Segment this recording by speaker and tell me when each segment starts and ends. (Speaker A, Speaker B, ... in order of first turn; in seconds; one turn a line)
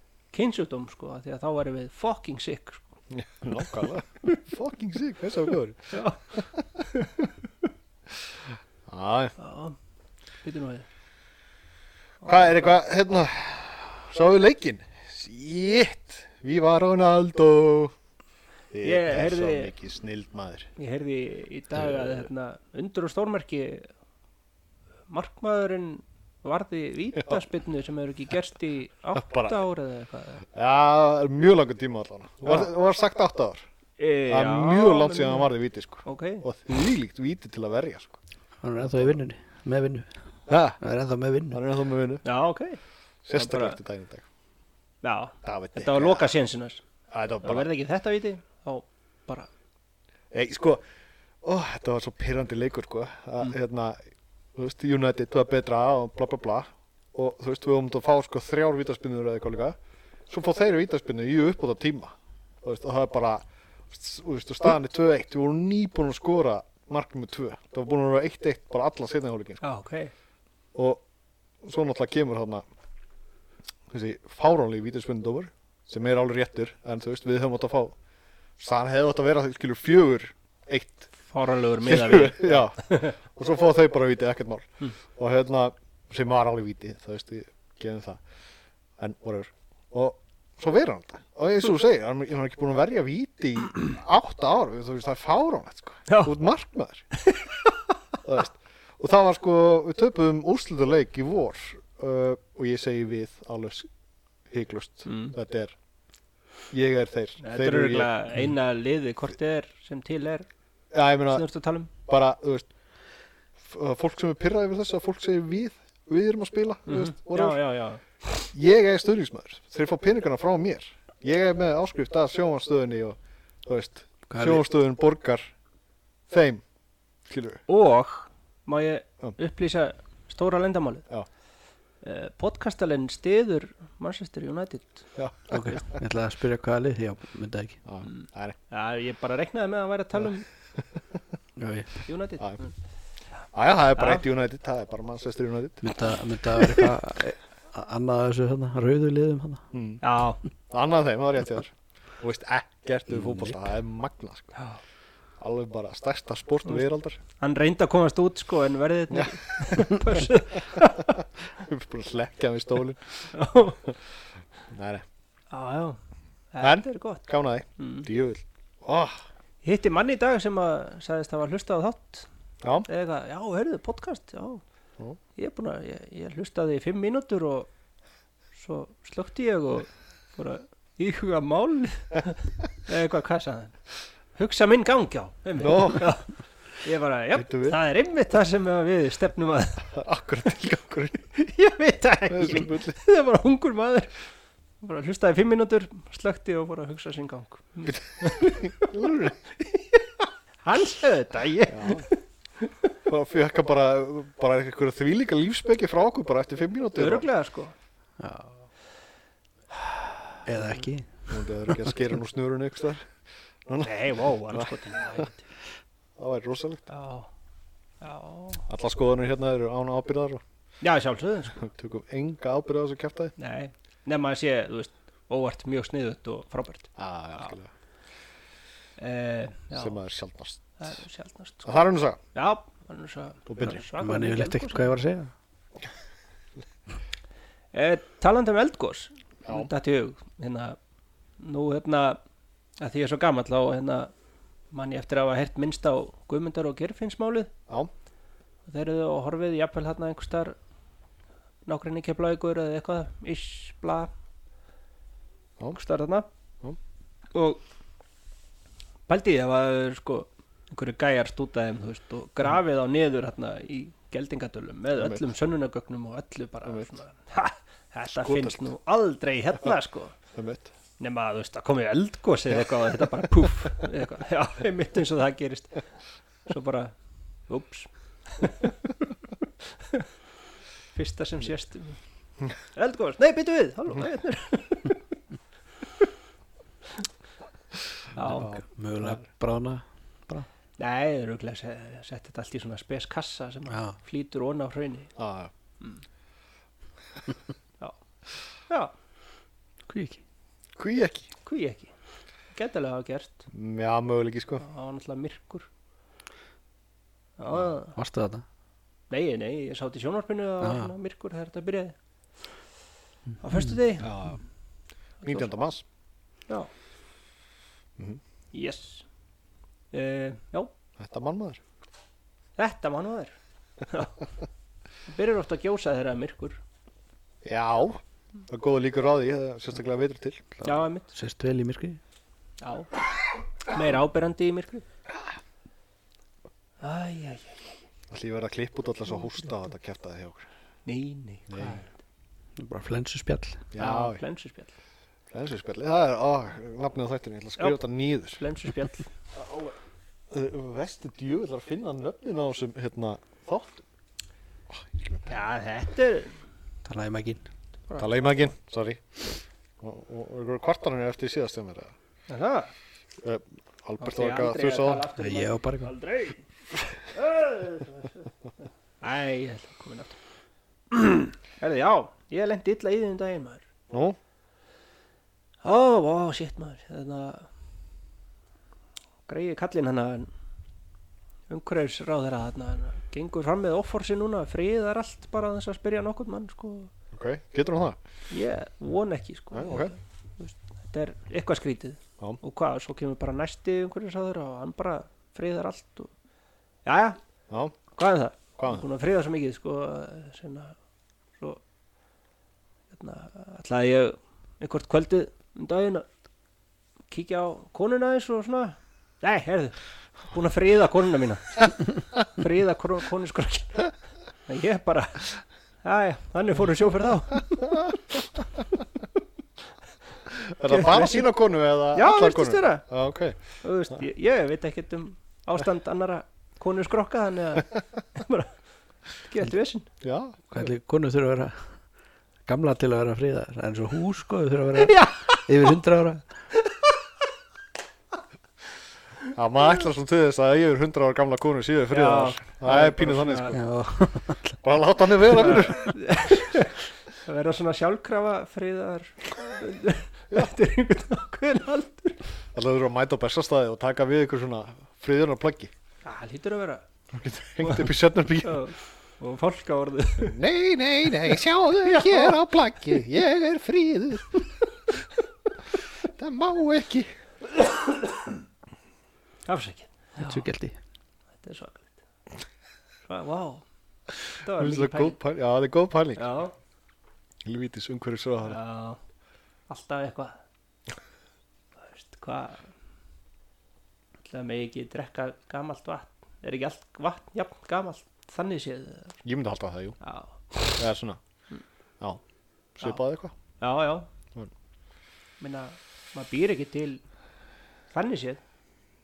Speaker A: 0.3-3.0
Speaker B: 3.1-6.6
Speaker A: 5.9-7.3
Speaker B: 8.9-9.3
Speaker A: 9.4-9.8
Speaker A: 10.4-10.9
Speaker B: 12.2-17.9
Speaker A: 12.2-12.6
Speaker B: 18.7-20.7
Speaker A: 18.8-19.7
Speaker A: 20.8-23.9
Speaker A: 25.1-30.4
Speaker B: 29.1-29.6
Speaker B: 30.5-33.6
Speaker A: 34.0-35.5
Speaker B: 34.3-38.2
Speaker A: 36.0-36.4
Speaker C: 38.6-41.6
Speaker B: 38.8-39.1
Speaker B: 40.5-40.8
Speaker B: 41.5-42.2
Speaker A: 42.2-42.8
Speaker B: 43.2-44.2
Speaker A: 43.3-43.8
Speaker A: 45.0-46.8
Speaker B: 45.4-46.3
Speaker B: 47.1-47.7
Speaker A: 47.4-49.5
Speaker B: 50.3-50.8
Speaker B: 51.4-54.0
Speaker B: 54.5-59.8
Speaker B: 60.3-69.6
Speaker A: 69.6-70.1
Speaker B: 70.7-71.0
Speaker B: 71.6-72.6
Speaker B: 73.9-78.0
Speaker B: 78.6-81.1
Speaker A: 81.3-83.2
Speaker B: 81.8-88.2
Speaker B: 89.0-97.1
Speaker A: 96.1-96.3
Speaker A: 97.2-97.7
Speaker B: 98.2-103.9
Speaker B: 104.5-105.7
Speaker A: 105.0-105.3
Speaker B: 106.7-108.1
Speaker A: 107.4-110.5
Speaker B: 110.9-111.4
Speaker A: 111.3-111.9
Speaker B: 112.0-112.7
Speaker B: 113.6-117.6
Speaker A: 116.9-118.0
Speaker B: 118.3-125.5
Speaker C: 124.3-124.6
Speaker B: 126.3-126.6
Speaker B: 127.3-127.6
Speaker A: 127.7-131.1
Speaker A: 132.0-135.1
Speaker B: 135.2-135.8
Speaker C: 135.5-137.8
Speaker B: 137.8-138.6
Speaker A: 138.0-140.5
Speaker C: 141.6-142.0
Speaker A: 142.1-142.7
Speaker B: 143.5-145.9
Speaker A: 143.9-144.2
Speaker C: 145.8-149.7
Speaker B: 149.7-150.0
Speaker A: 150.0-150.4
Speaker B: 150.7-154.6
Speaker C: 153.2-153.5
Speaker B: 155.4-157.2
Speaker A: 157.4-161.2
Speaker B: 159.1-160.0
Speaker B: 160.8-164.0
Speaker A: 163.3-163.8
Speaker B: 164.7-165.0
Speaker A: 165.5-166.0
Speaker A: 166.5-167.2
Speaker B: 166.6-169.2
Speaker A: 167.8-168.1
Speaker A: 169.6-172.3
Speaker B: 172.6-172.9
Speaker A: 172.9-174.6
Speaker A: 175.3-177.7
Speaker A: 178.5-183.8
Speaker A: 184.3-189.9
Speaker B: 185.6-186.1
Speaker B: 187.3-187.8
Speaker B: 189.9-191.2
Speaker A: 191.3-194.2
Speaker B: 192.3-193.0
Speaker A: 194.8-202.9
Speaker B: 197.9-199.4
Speaker B: 201.7-202.1
Speaker B: 203.1-207.3
Speaker A: 207.0-207.7
Speaker C: 208.2-208.5
Speaker C: 210.4-211.3
Speaker B: 211.3-213.1
Speaker B: 213.7-215.2
Speaker A: 213.8-215.4
Speaker B: 216.2-216.9
Speaker A: 216.9-217.3
Speaker A: 218.0-218.6
Speaker B: 218.7-220.4
Speaker A: 220.8-221.7
Speaker B: 221.6-223.3
Speaker A: 223.4-227.6
Speaker B: 227.0-227.7
Speaker A: 229.0-230.0
Speaker B: 229.7-230.6
Speaker A: 230.8-234.9
Speaker B: 231.6-232.2
Speaker B: 233.5-233.8
Speaker C: 233.9-235.3
Speaker A: 237.7-240.8
Speaker B: 239.4-239.7
Speaker A: 241.4-242.2
Speaker A: 242.8-244.1
Speaker A: 244.7-247.5
Speaker A: 248.7-250.6
Speaker A: 251.7-254.1
Speaker A: 255.7-256.3
Speaker A: 257.3-257.6
Speaker A: 259.1-270.1
Speaker B: 264.9-265.2
Speaker B: 268.1-268.6
Speaker B: 270.3-270.7
Speaker A: 271.0-275.9
Speaker A: 276.4-276.9
Speaker A: 277.5-278.9
Speaker A: 280.9-282.0
Speaker A: 282.7-285.0
Speaker A: 288.1-288.5
Speaker C: 288.2-290.5
Speaker B: 288.3-289.2
Speaker A: 290.8-295.1
Speaker C: 293.7-293.9
Speaker B: 295.2-295.5
Speaker C: 299.9-300.2
Speaker B: 300.8-301.3
Speaker A: 301.4-301.9
Speaker A: 302.5-303.5
Speaker B: 303.5-304.6
Speaker A: 304.6-305.7
Speaker A: 307.4-307.9
Speaker C: 307.9-308.4
Speaker A: 309.1-311.9
Speaker C: 310.6-310.9
Speaker A: 313.4-314.3
Speaker B: 314.0-314.4
Speaker B: 315.2-315.8
Speaker A: 318.5-319.1
Speaker A: 319.9-320.7
Speaker B: 321.0-321.6
Speaker A: 322.6-324.2
Speaker A: 325.1-326.6
Speaker B: 327.4-330.7
Speaker A: 330.6-331.1
Speaker C: 331.1-332.0
Speaker A: 332.6-332.9
Speaker A: 333.6-334.8
Speaker A: 336.8-337.7
Speaker B: 338.1-340.5
Speaker A: 340.9-341.9
Speaker B: 341.5-341.8
Speaker C: 342.6-343.7
Speaker B: 343.7-344.2
Speaker A: 343.8-344.7
Speaker B: 345.3-348.4
Speaker A: 348.3-349.1
Speaker B: 349.3-349.7
Speaker B: 350.3-353.8
Speaker B: 354.7-355.3
Speaker A: 355.3-356.4
Speaker C: 356.8-357.4
Speaker A: 357.9-358.3
Speaker B: 358.0-359.2
Speaker B: 359.8-361.9
Speaker A: 362.3-362.7
Speaker B: 363.2-365.1
Speaker A: 364.0-368.3
Speaker C: 365.2-365.9
Speaker A: 369.0-370.2
Speaker A: 370.9-373.7
Speaker B: 373.9-374.2
Speaker A: 375.6-377.5
Speaker A: 379.3-380.3
Speaker A: 381.5-386.9
Speaker B: 387.1-388.0
Speaker A: 388.3-396.1
Speaker B: 389.5-389.9
Speaker A: 396.8-397.2
Speaker B: 397.5-397.7
Speaker A: 397.9-400.7
Speaker B: 398.6-398.8
Speaker A: 402.9-406.1
Speaker A: 407.1-413.9
Speaker A: 414.4-418.0
Speaker B: 420.3-423.4
Speaker A: 420.6-421.3
Speaker A: 421.9-422.9
Speaker A: 423.6-428.6
Speaker A: 429.2-429.9
Speaker B: 430.0-430.4
Speaker C: 430.5-431.7
Speaker C: 432.4-436.3
Speaker A: 434.8-435.7
Speaker B: 439.3-443.6
Speaker A: 441.9-443.6
Speaker C: 443.5-444.6
Speaker B: 444.6-446.1
Speaker A: 445.3-452.2
Speaker B: 452.5-455.7
Speaker A: 456.0-456.8
Speaker B: 457.1-458.6
Speaker A: 457.6-457.9
Speaker A: 458.4-460.4
Speaker B: 460.2-464.5
Speaker A: 461.2-462.4
Speaker B: 466.0-467.1
Speaker A: 469.4-470.4
Speaker C: 470.2-470.8
Speaker A: 471.4-471.9
Speaker A: 473.1-473.6
Speaker A: 474.4-475.2
Speaker B: 474.5-476.2
Speaker A: 476.2-476.5
Speaker B: 477.4-478.6
Speaker A: 478.4-479.0
Speaker A: 479.7-480.4
Speaker A: 481.8-482.7
Speaker A: 484.2-489.2
Speaker B: 489.2-490.0
Speaker A: 490.0-490.4
Speaker B: 490.7-491.2
Speaker B: 492.7-493.3
Speaker A: 493.6-494.1
Speaker A: 495.4-497.0
Speaker A: 497.9-498.4